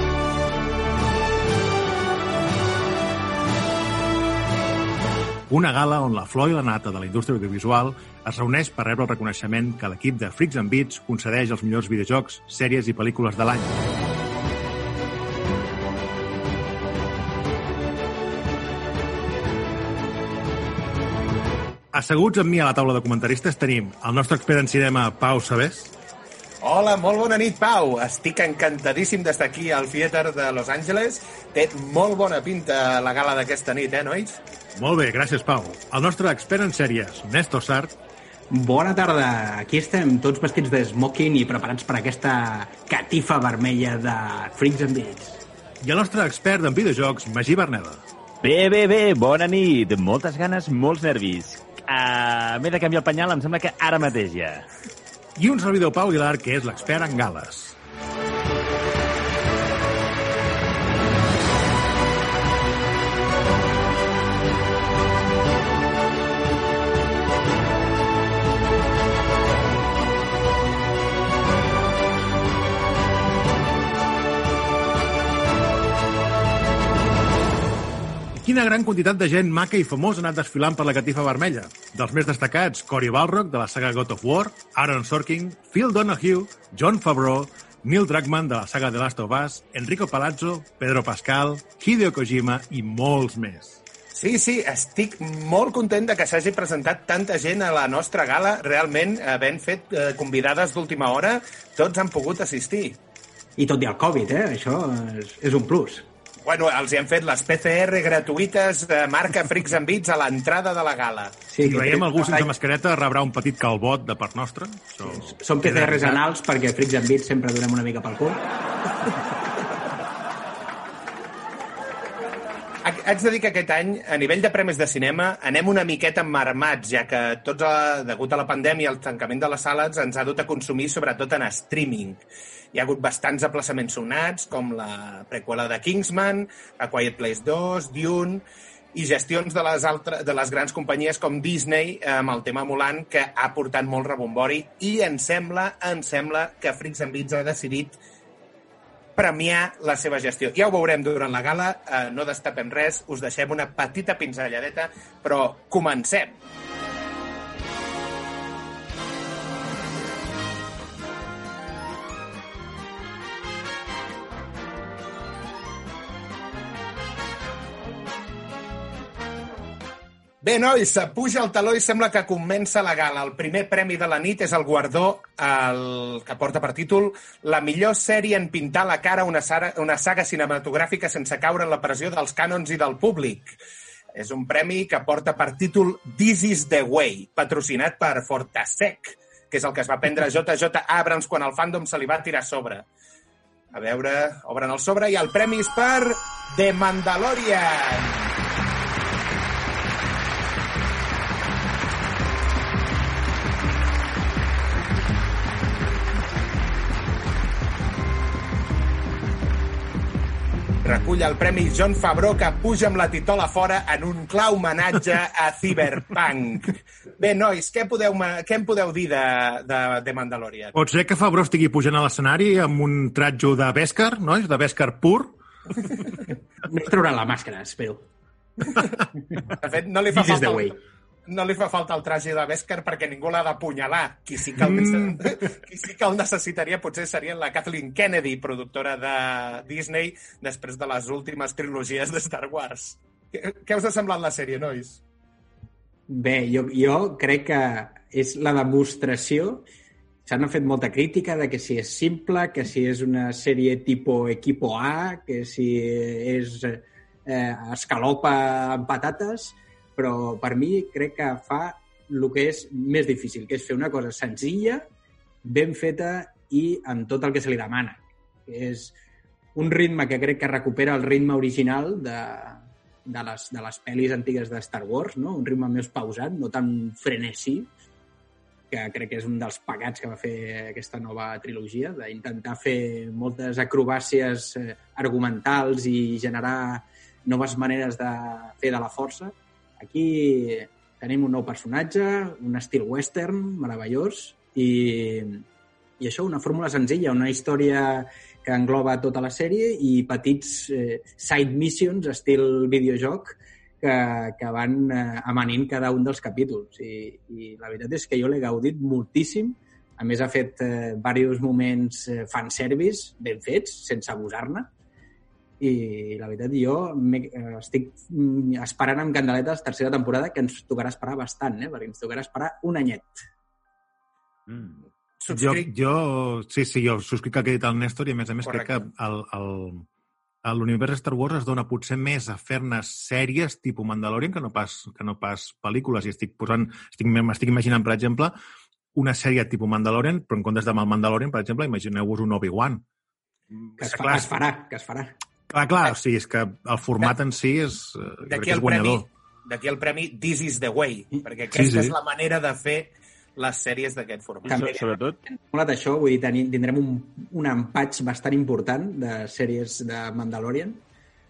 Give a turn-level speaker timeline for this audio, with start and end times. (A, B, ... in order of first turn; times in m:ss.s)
0:05.5-0:13.8 A
0:21.9-0:25.9 A
0:26.6-0:34.4 B
0:34.8-0:38.0 A
0:38.5-0:45.4 C
0:45.8-0:48.0 A
0:48.4-0:54.7 D
0:55.4-0:57.8 A
1:18.3-1:33.8 A
1:34.1-1:43.0 B
1:43.6-1:46.1 C
1:46.4-1:51.4 B
1:51.5-1:52.5 C
1:51.6-1:56.2 A
1:55.0-1:58.4 C
2:02.8-2:12.2 B
2:12.7-2:28.0 B
2:29.2-2:36.4 B
2:50.4-3:03.5 B
3:04.2-3:12.9 B
3:13.7-3:18.3 B
3:30.8-3:40.7 B
3:40.7-3:45.4 A
3:46.6-3:48.1 C
3:49.5-3:50.8 B
3:50.1-3:50.8 C
3:51.3-4:05.0 B
3:54.6-3:55.2 A
4:06.1-4:09.6 C
4:10.3-4:24.9 C
4:25.4-4:29.0 C
4:29.6-4:37.7 C
4:38.7-4:55.4 C
4:56.0-5:14.7 C
5:15.6-5:23.3 C
5:24.5-5:24.8 D
5:25.2-5:25.7 B
5:25.3-5:29.9 A
5:28.4-5:28.8 B
5:30.4-5:38.4 A
5:38.9-5:42.8 A
5:43.5-5:44.4 A
5:43.8-5:45.1 C
5:45.5-5:49.1 A
5:48.3-5:54.9 B
5:51.5-5:52.0 A
5:54.5-5:55.2 D
5:54.5-6:00.8 C